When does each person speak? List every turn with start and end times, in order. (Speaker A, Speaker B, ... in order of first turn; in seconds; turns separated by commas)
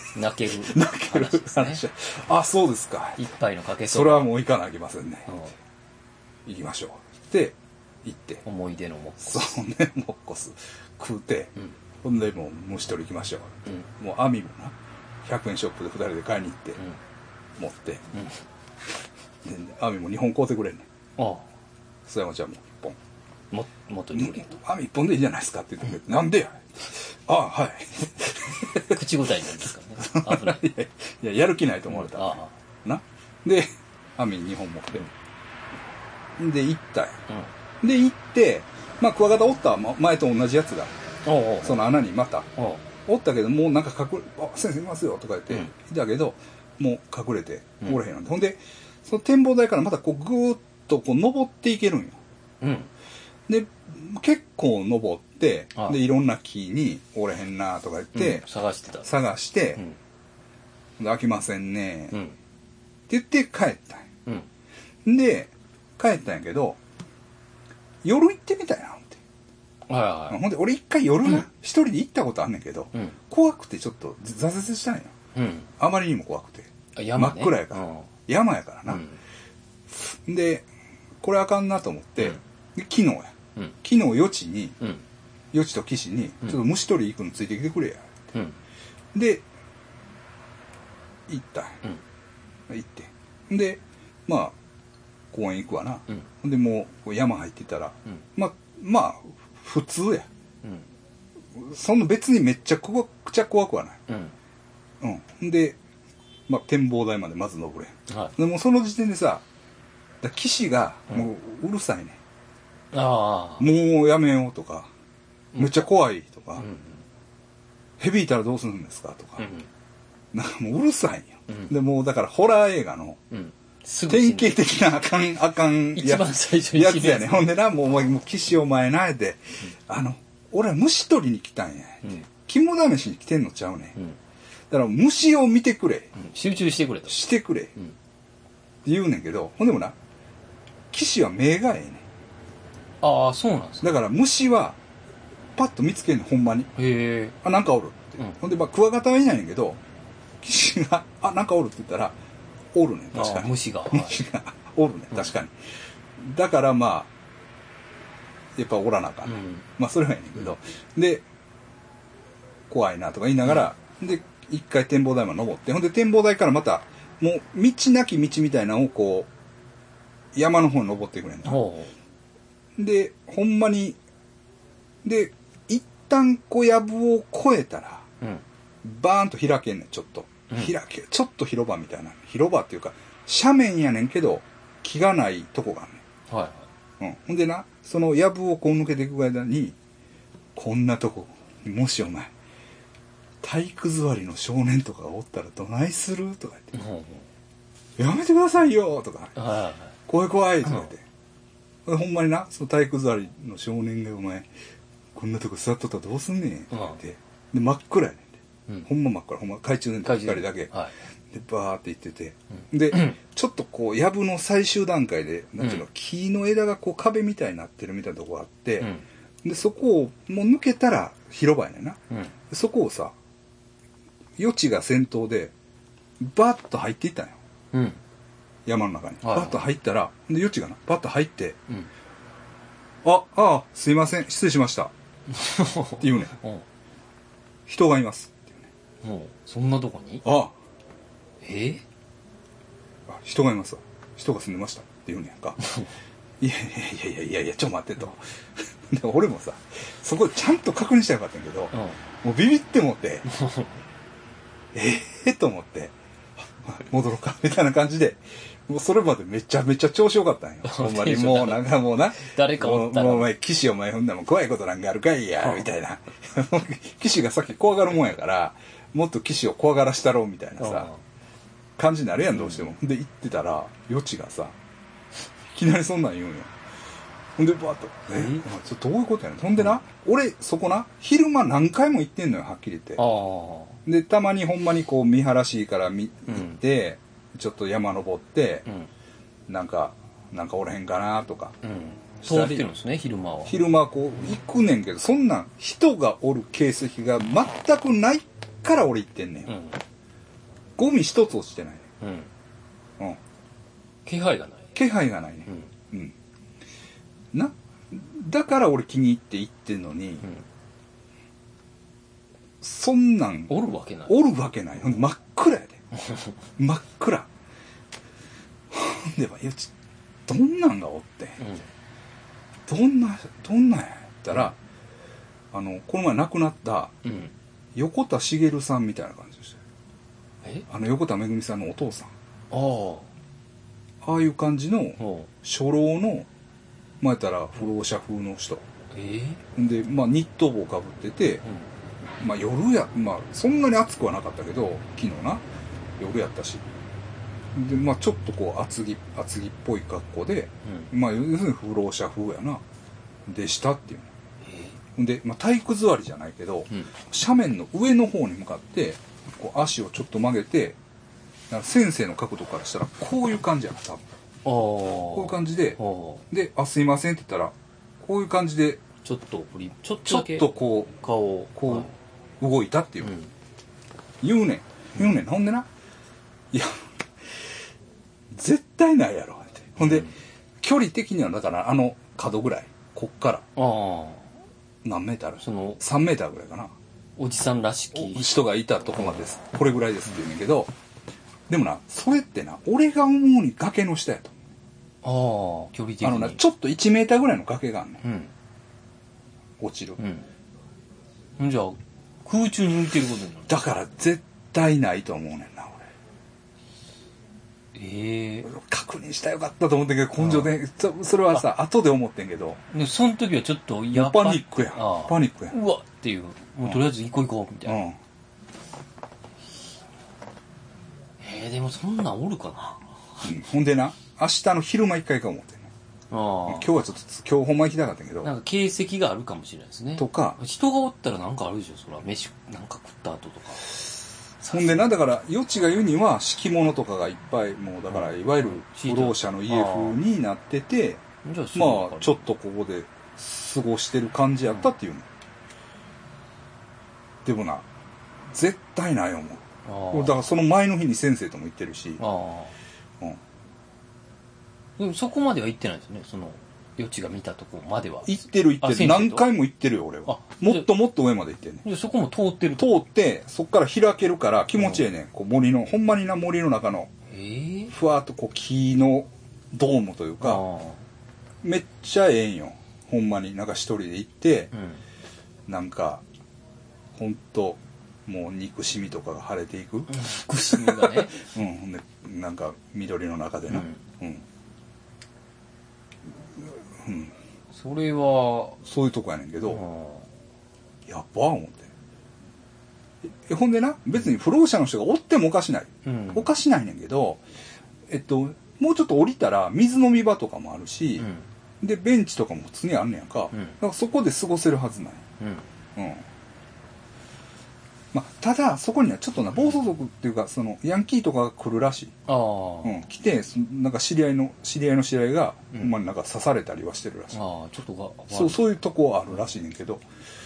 Speaker A: 0.1-1.8, Speaker B: 0.5-3.2, Speaker A: 3.2-4.3, Speaker B: 3.9-5.3, Speaker A: 5.3-5.5, Speaker B: 6.5-8.4, Speaker A: 8.4-9.6, Speaker B: 9.2-16.8, Speaker B: 17.6-18.1, Speaker B: 19.4-20.9, Speaker A: 21.2-21.5, Speaker B: 22.1-23.0, Speaker A: 23.5-24.5, Speaker B: 24.1-29.0, Speaker A: 28.7-30.6, Speaker B: 30.0-35.1, Speaker A: 31.9-32.5, Speaker B: 36.4-37.2, Speaker B: 37.8-40.9, Speaker A: 41.2-41.9, Speaker B: 41.6-42.5, Speaker A: 42.6-42.8, Speaker B: 43.0-52.2, Speaker A: 52.6-52.9, Speaker B: 53.5-58.5, Speaker A: 58.1-59.1, Speaker B: 59.0-59.8, Speaker B: 61.0-62.2, Speaker B: 63.1-64.1, Speaker B: 65.0-66.8, Speaker B: 68.0-69.2, Speaker A: 69.9-70.4, Speaker B: 70.3-75.1, Speaker A: 75.3-75.7, Speaker B: 75.8-79.0, Speaker A: 76.9-78.1, Speaker A: 78.9-79.2, Speaker B: 79.9-80.7, Speaker B: 81.2-84.8, Speaker B: 85.5-88.3, Speaker A: 88.3-88.6, Speaker B: 89.1-89.4, Speaker B: 91.3-91.8, Speaker B: 92.7-94.5, Speaker B: 95.3-100.3, Speaker B: 101.5-104.0, Speaker A: 104.1-104.3, Speaker B: 105.0-105.8, Speaker B: 106.5-109.4, Speaker A: 108.1-108.3, Speaker B: 110.2-112.2, Speaker A: 112.9-113.7, Speaker B: 113.6-114.9, Speaker A: 115.5-115.9, Speaker B: 115.5-116.7, Speaker A: 116.6-117.0, Speaker B: 118.0-119.5, Speaker A: 119.4-119.7, Speaker B: 120.3-123.2, Speaker A: 123.3-124.6, Speaker B: 124.1-134.0, Speaker A: 125.9-127.5, Speaker B: 134.7-136.1, Speaker A: 136.1-137.2, Speaker B: 137.1-137.7, Speaker B: 138.8-139.9, Speaker B: 140.9-142.0, Speaker A: 143.0-143.9, Speaker B: 143.8-144.8, Speaker B: 145.6-146.7, Speaker A: 146.8-147.3, Speaker B: 147.4-149.8, Speaker B: 150.4-152.2, Speaker B: 152.7-155.5, Speaker A: 153.1-154.2, Speaker B: 156.2-157.1, Speaker B: 158.6-161.2, Speaker A: 159.2-159.6, Speaker B: 162.7-169.3, Speaker B: 170.3-171.6, Speaker A: 171.4-171.9, Speaker B: 172.8-174.0, Speaker B: 175.0-178.1, Speaker B: 178.8-186.0, Speaker A: 186.3-186.7, Speaker B: 187.0-189.8, Speaker B: 190.5-192.3, Speaker B: 193.4-196.8, Speaker A: 196.7-197.3, Speaker B: 198.0-199.4, Speaker A: 199.3-199.9, Speaker B: 200.1-201.0, Speaker B: 201.8-204.5, Speaker B: 205.1-210.7, Speaker A: 206.7-207.0, Speaker A: 210.0-210.9, Speaker B: 211.3-218.9, Speaker A: 218.8-219.0, Speaker B: 219.4-223.1, Speaker B: 224.4-225.5, Speaker B: 226.2-227.4, Speaker A: 227.7-228.0, Speaker B: 228.7-231.6, Speaker A: 229.2-229.6, Speaker B: 233.0-234.9, Speaker A: 235.3-236.6, Speaker B: 236.0-236.4, Speaker B: 237.7-238.7, Speaker A: 239.0-240.2, Speaker B: 240.2-240.5, Speaker A: 241.4-241.8, Speaker B: 243.1-245.6, Speaker A: 245.6-245.9, Speaker B: 246.4-253.3, Speaker A: 251.7-252.0, Speaker A: 253.2-253.7, Speaker B: 254.7-255.9, Speaker B: 256.6-270.9, Speaker A: 260.6-263.3, Speaker A: 265.4-265.7, Speaker A: 270.6-271.0, Speaker B: 271.8-274.6, Speaker A: 272.3-272.7, Speaker B: 275.5-276.5, Speaker B: 277.4-283.0, Speaker A: 278.1-278.4, Speaker A: 282.9-283.8, Speaker B: 283.8-288.7, Speaker A: 286.3-286.6, Speaker B: 289.5-291.6, Speaker A: 291.6-293.6, Speaker B: 292.2-292.7, Speaker B: 293.4-299.5, Speaker A: 299.5-299.8, Speaker B: 300.8-301.8, Speaker A: 302.0-302.3, Speaker A: 304.0-304.8, Speaker B: 304.7-306.1, Speaker B: 307.3-310.3, Speaker B: 312.6-315.9, Speaker A: 313.5-314.2, Speaker A: 316.0-316.3, Speaker B: 316.6-317.3, Speaker B: 318.7-319.7, Speaker B: 320.3-321.5, Speaker A: 321.4-321.6, Speaker B: 322.7-324.6, Speaker B: 325.5-327.0, Speaker A: 327.0-327.3, Speaker B: 327.7-329.6, Speaker B: 330.7-332.1, Speaker A: 332.5-333.1, Speaker B: 334.0-336.3, Speaker A: 335.0-335.3, Speaker B: 337.0-338.6, Speaker A: 338.9-339.4, Speaker B: 339.5-341.4, Speaker A: 341.4-341.7, Speaker B: 342.2-345.4, Speaker B: 346.0-346.6, Speaker B: 347.5-352.6, Speaker A: 350.6-350.9, Speaker B: 353.3-354.1, Speaker A: 354.4-354.8, Speaker B: 354.9-360.8, Speaker B: 361.5-364.0, Speaker A: 364.4-366.2, Speaker B: 365.1-368.8, Speaker A: 369.0-371.9, Speaker B: 370.1-370.9, Speaker B: 371.6-373.2, Speaker A: 373.0-373.3, Speaker B: 374.2-375.7, Speaker B: 376.5-376.8, Speaker B: 378.3-383.5, Speaker A: 379.8-380.1, Speaker A: 383.6-384.3, Speaker B: 384.8-386.7, Speaker A: 385.4-385.8, Speaker A: 387.2-388.4, Speaker B: 387.9-390.7, Speaker B: 391.5-394.4, Speaker A: 395.0-396.4, Speaker B: 396.0-398.0, Speaker A: 398.0-398.3, Speaker B: 399.6-400.0, Speaker A: 400.0-400.3, Speaker A: 401.4-403.6, Speaker B: 403.5-405.9, Speaker A: 407.7-408.5, Speaker B: 408.4-412.6, Speaker A: 410.2-410.5, Speaker A: 412.7-417.8, Speaker B: 413.9-415.6, Speaker B: 417.6-418.0, Speaker A: 421.2-422.9, Speaker B: 423.2-425.7, Speaker A: 426.1-426.7, Speaker B: 426.5-428.3, Speaker A: 428.2-433.8, Speaker B: 430.0-430.4, Speaker A: 434.4-434.9, Speaker B: 434.5-441.0, Speaker A: 437.9-440.0, Speaker A: 441.2-442.3, Speaker B: 441.5-445.1, Speaker B: 447.2-447.7, Speaker B: 448.3-452.0, Speaker A: 449.6-450.2, Speaker A: 452.0-452.5, Speaker A: 454.8-459.3, Speaker B: 458.0-461.6, Speaker A: 460.1-460.7, Speaker A: 461.6-462.7, Speaker B: 462.6-466.9, Speaker A: 464.5-464.9, Speaker A: 467.1-467.7, Speaker B: 467.7-470.4, Speaker A: 470.2-470.8, Speaker B: 471.4-474.5, Speaker A: 474.5-474.8, Speaker B: 475.5-476.0, Speaker B: 476.9-479.9, Speaker A: 479.9-481.1, Speaker B: 480.5-484.2, Speaker A: 483.5-483.8, Speaker B: 486.8-487.1, Speaker A: 487.5-488.6, Speaker B: 488.6-489.6, Speaker A: 489.4-490.1, Speaker B: 490.9-491.7, Speaker B: 493.0-497.2, Speaker A: 495.8-496.3, Speaker B: 497.9-501.1, Speaker A: 501.0-501.3, Speaker B: 501.6-505.0, Speaker A: 503.3-503.6, Speaker A: 505.2-505.5, Speaker B: 505.7-506.0, Speaker B: 507.9-511.9, Speaker A: 512.1-512.8, Speaker B: 512.6-517.2, Speaker A: 517.1-518.5, Speaker B: 518.1-519.8